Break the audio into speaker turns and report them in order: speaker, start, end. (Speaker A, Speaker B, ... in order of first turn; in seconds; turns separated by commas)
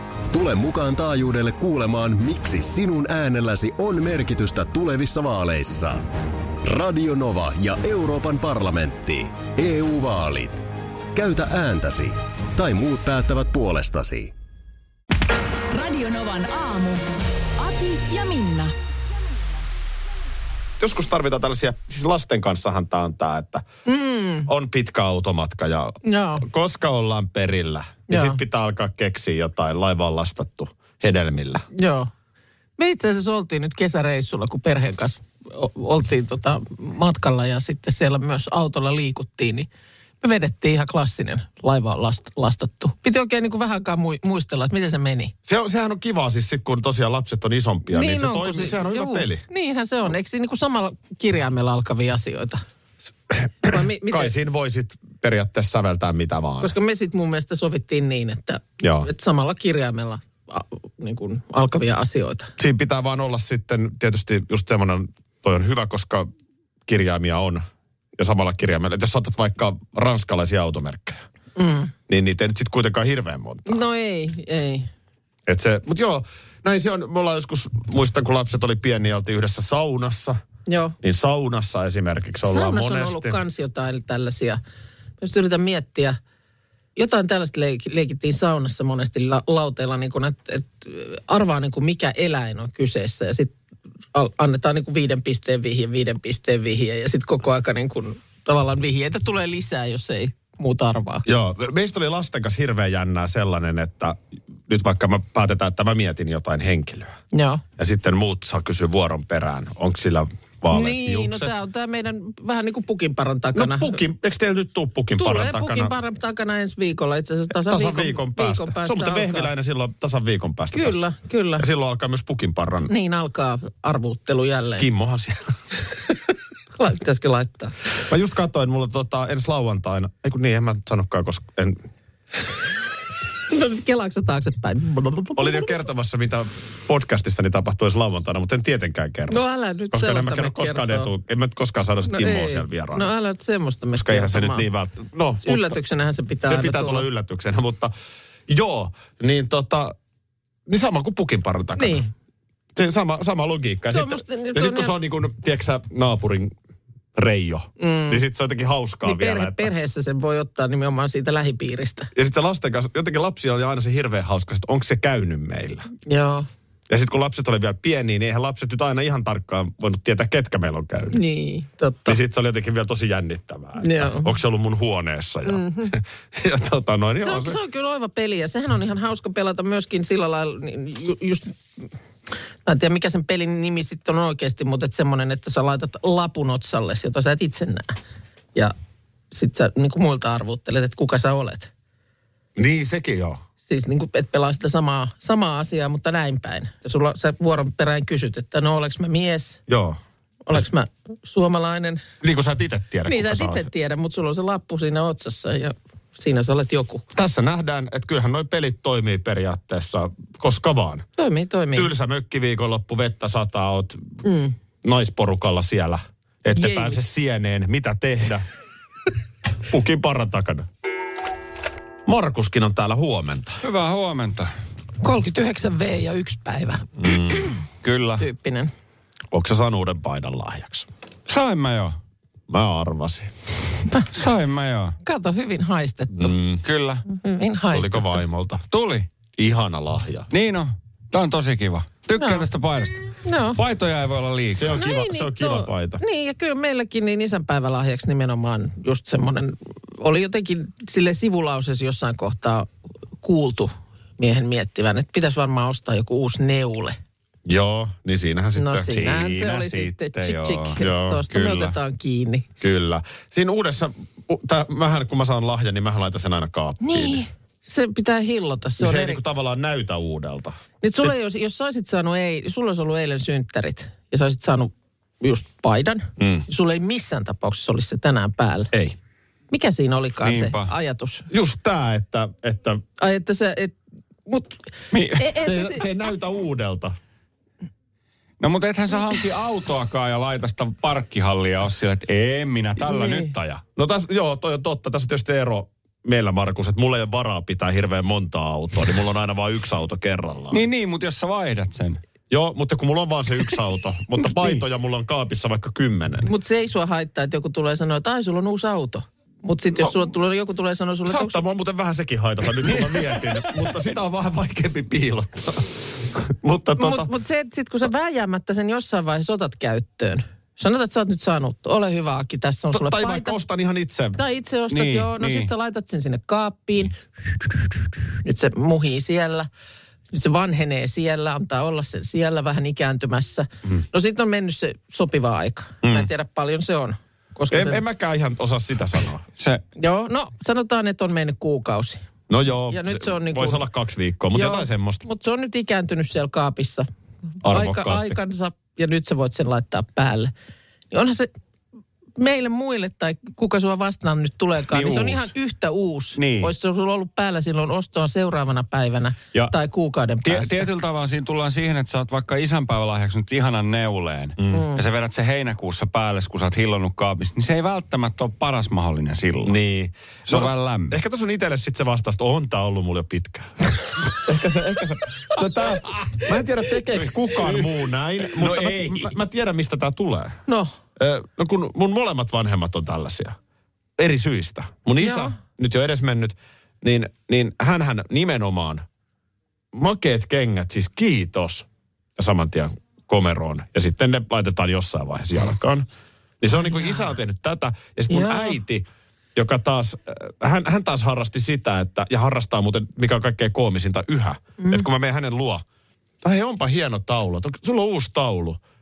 Speaker A: 0.3-6.0, Speaker A: 6.6-14.3, Speaker B: 15.7-17.0, Speaker B: 17.6-18.7, Speaker C: 20.8-23.7, Speaker D: 23.9-24.5, Speaker C: 24.5-31.7, Speaker D: 26.0-26.5, Speaker D: 28.1-28.4, Speaker D: 31.8-32.1, Speaker D: 32.8-39.7, Speaker D: 40.2-45.3, Speaker C: 45.5-49.4, Speaker D: 47.9-52.6, Speaker C: 53.3-56.8, Speaker D: 53.6-54.3, Speaker D: 56.6-62.5, Speaker C: 58.8-59.1, Speaker C: 62.6-66.3, Speaker C: 66.9-67.6, Speaker C: 68.2-71.2, Speaker D: 71.6-71.9, Speaker C: 72.1-73.8, Speaker D: 73.7-74.9, Speaker C: 75.5-80.4, Speaker D: 80.7-81.0, Speaker C: 81.0-83.4, Speaker D: 82.4-84.6, Speaker D: 85.2-86.2, Speaker D: 87.0-93.5, Speaker D: 94.1-101.3, Speaker C: 101.3-107.2, Speaker D: 107.3-107.6, Speaker C: 107.8-111.5, Speaker D: 110.7-114.0, Speaker C: 113.5-116.0, Speaker D: 115.2-119.5, Speaker C: 117.5-121.0, Speaker D: 120.7-121.7, Speaker C: 121.6-122.9, Speaker D: 122.9-124.9, Speaker C: 124.8-125.5, Speaker D: 126.8-127.8, Speaker C: 128.0-131.8, Speaker D: 133.5-135.7, Speaker C: 135.4-143.1, Speaker D: 139.3-141.1, Speaker D: 142.1-144.7, Speaker C: 144.0-145.8, Speaker D: 145.4-147.1, Speaker C: 146.5-147.9, Speaker C: 148.5-149.9, Speaker C: 150.7-152.0, Speaker D: 151.8-152.1, Speaker C: 152.8-156.5, Speaker D: 153.9-155.0, Speaker C: 157.2-159.7, Speaker D: 157.8-158.2, Speaker D: 159.0-162.1, Speaker C: 162.1-165.9, Speaker D: 166.1-166.5, Speaker C: 166.9-171.2, Speaker D: 171.1-172.2, Speaker C: 172.1-177.6, Speaker D: 173.8-174.3, Speaker D: 175.5-175.9, Speaker D: 177.2-181.8, Speaker D: 182.7-188.0, Speaker D: 189.3-191.7, Speaker C: 192.6-193.4, Speaker D: 193.7-199.6, Speaker C: 199.7-200.0, Speaker D: 200.5-202.0, Speaker C: 202.2-203.7, Speaker D: 203.1-207.0, Speaker C: 207.1-211.1, Speaker D: 211.2-211.9, Speaker C: 211.7-214.1, Speaker D: 214.2-214.6, Speaker C: 214.8-218.4, Speaker D: 216.6-217.0, Speaker C: 219.7-220.7, Speaker C: 222.1-223.6, Speaker E: 223.6-224.5, Speaker D: 225.0-227.6, Speaker C: 227.0-227.5, Speaker E: 227.8-228.2, Speaker D: 228.2-228.7, Speaker C: 229.3-230.9, Speaker E: 231.3-232.0, Speaker C: 232.5-233.3, Speaker E: 234.1-235.0, Speaker D: 235.0-236.3, Speaker C: 236.1-236.6, Speaker E: 236.6-237.0, Speaker D: 237.1-238.2, Speaker C: 237.7-238.6, Speaker E: 238.7-239.1, Speaker C: 239.4-240.3, Speaker E: 240.3-244.8, Speaker D: 242.2-242.5, Speaker D: 243.2-243.6, Speaker C: 244.6-246.0, Speaker D: 244.8-252.7, Speaker D: 253.2-257.0, Speaker C: 257.5-259.1, Speaker D: 258.6-262.5, Speaker E: 258.9-261.8, Speaker C: 260.8-261.2, Speaker C: 262.6-267.2, Speaker D: 266.8-269.2, Speaker C: 268.8-271.1, Speaker D: 270.8-278.7, Speaker C: 276.2-276.5, Speaker C: 278.7-279.0, Speaker D: 279.5-281.3, Speaker E: 280.2-280.7, Speaker C: 281.3-282.8, Speaker D: 283.0-284.6, Speaker E: 284.9-285.3, Speaker D: 285.1-285.9, Speaker C: 285.4-287.0, Speaker E: 288.4-293.6, Speaker D: 292.8-293.3, Speaker C: 293.8-300.6, Speaker E: 300.5-302.0, Speaker C: 302.3-306.3, Speaker E: 304.2-304.6, Speaker D: 306.2-311.4, Speaker C: 311.1-317.1, Speaker E: 312.8-313.3, Speaker D: 316.8-323.4, Speaker C: 322.7-324.2, Speaker D: 324.2-329.5, Speaker E: 324.7-325.5, Speaker D: 330.1-337.8, Speaker C: 335.8-336.1, Speaker C: 337.5-339.2, Speaker D: 339.8-342.0, Speaker C: 342.3-345.0, Speaker D: 342.7-343.7, Speaker D: 344.3-346.9, Speaker C: 347.4-348.2, Speaker D: 347.4-350.3, Speaker D: 350.9-351.3, Speaker D: 352.2-360.7, Speaker E: 354.7-355.3, Speaker E: 356.2-356.5, Speaker E: 360.2-369.6, Speaker C: 364.4-364.6, Speaker D: 364.5-364.8, Speaker C: 369.4-380.4, Speaker E: 370.3-371.0, Speaker E: 375.9-376.2, Speaker E: 377.0-377.8, Speaker E: 378.3-379.1, Speaker D: 380.5-380.7, Speaker C: 381.0-383.4, Speaker C: 384.0-388.9, Speaker D: 385.0-385.3, Speaker C: 389.7-391.7, Speaker C: 392.2-395.9, Speaker C: 396.4-405.6, Speaker D: 396.6-397.0, Speaker D: 398.1-398.6, Speaker D: 404.6-404.9, Speaker C: 406.2-408.6